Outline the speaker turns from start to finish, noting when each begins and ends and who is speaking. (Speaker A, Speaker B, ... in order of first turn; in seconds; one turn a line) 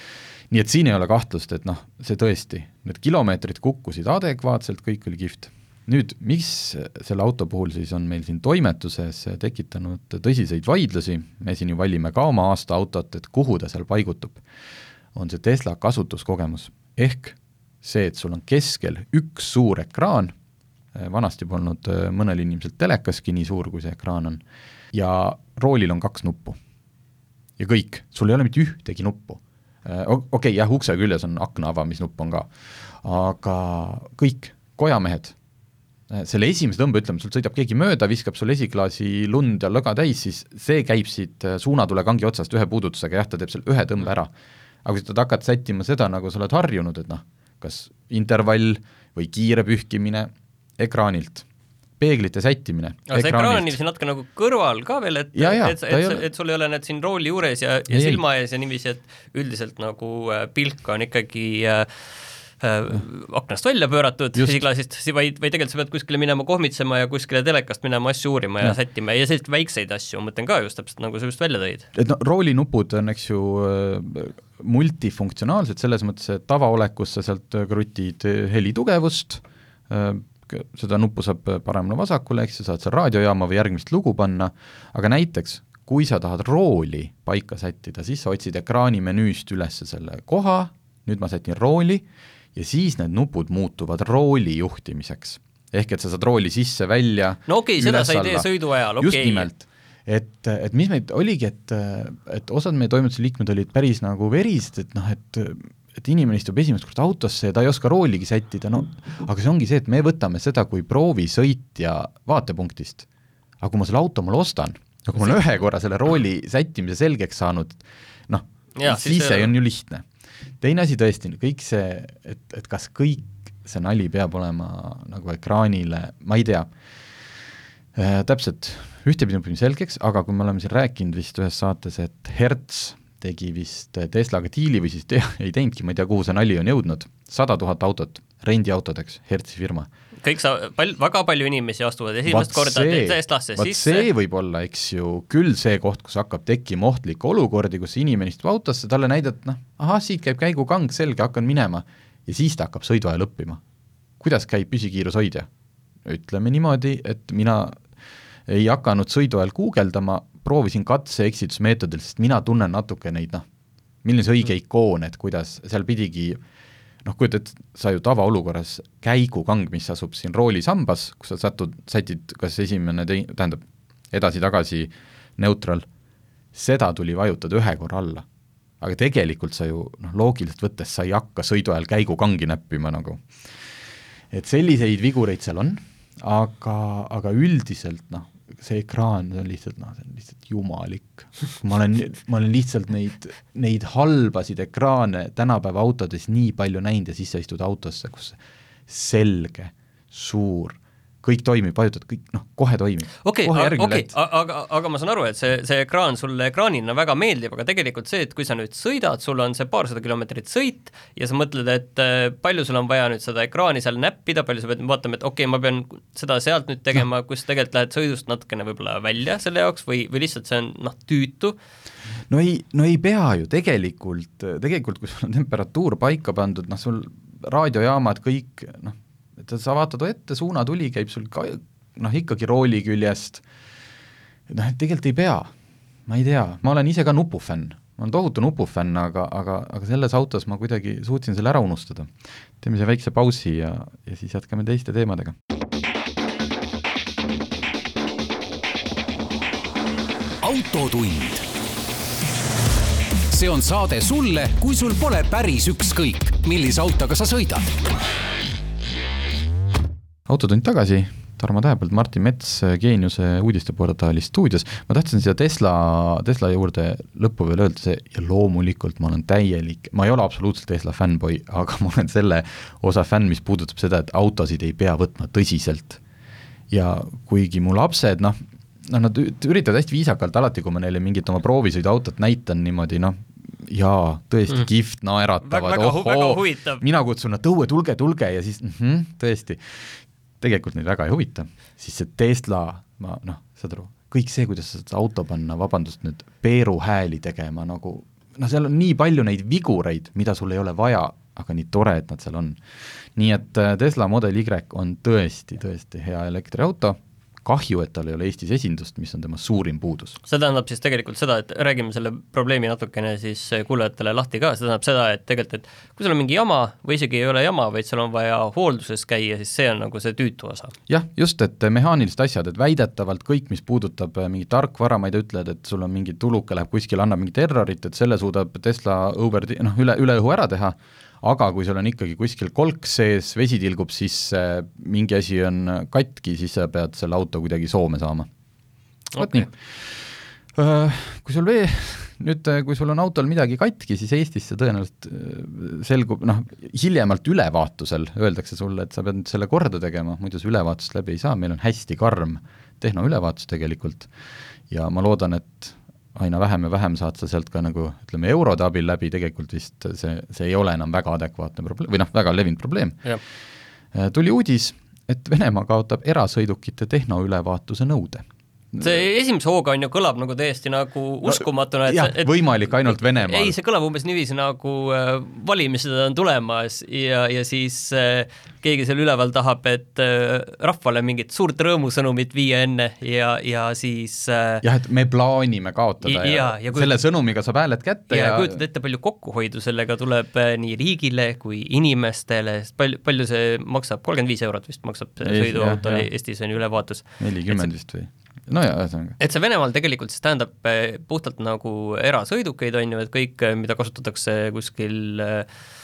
Speaker A: 0.5-14.4
Speaker A: 15.1-20.3
Speaker A: 20.9-24.4
Speaker A: 24.9-26.6
Speaker A: 27.6-35.4
Speaker A: 36.1-44.3
Speaker A: 44.9-51.5
Speaker A: 52.0-53.8
Speaker B: 53.1-61.9
Speaker A: 55.4-56.2
Speaker A: 57.9-58.2
Speaker B: 62.6-71.9
Speaker A: 64.3-64.6
Speaker A: 71.9-113.1
Speaker B: 97.5-99.5
Speaker A: 113.6-120.0
Speaker B: 118.8-119.5
Speaker A: 120.6-126.7
Speaker A: 128.0-139.9
Speaker B: 140.2-144.1
Speaker A: 142.3-153.6
Speaker A: 154.2-155.5
Speaker A: 156.1-157.8
Speaker A: 158.5-163.4
Speaker A: 164.0-166.4
Speaker A: 167.0-175.9
Speaker A: 176.5-178.2
Speaker A: 178.8-183.7
Speaker A: 184.3-204.1
Speaker B: 203.2-221.6
Speaker A: 222.3-233.4
Speaker A: 234.5-235.5
Speaker A: 236.1-245.4
Speaker C: 250.4-251.4
Speaker C: 253.3-257.7
Speaker A: 260.3-276.0
Speaker A: 276.7-302.6
Speaker B: 285.4-286.8
Speaker A: 303.1-310.2
Speaker B: 310.3-320.7
Speaker A: 320.9-338.3
Speaker B: 339.1-339.5
Speaker A: 339.2-354.1
Speaker A: 354.7-363.1
Speaker A: 363.9-369.0
Speaker B: 368.8-384.6
Speaker A: 371.3-373.5
Speaker A: 384.6-388.6
Speaker B: 386.0-386.9
Speaker B: 388.1-397.7
Speaker A: 395.2-396.1
Speaker A: 397.2-399.2
Speaker B: 399.2-405.5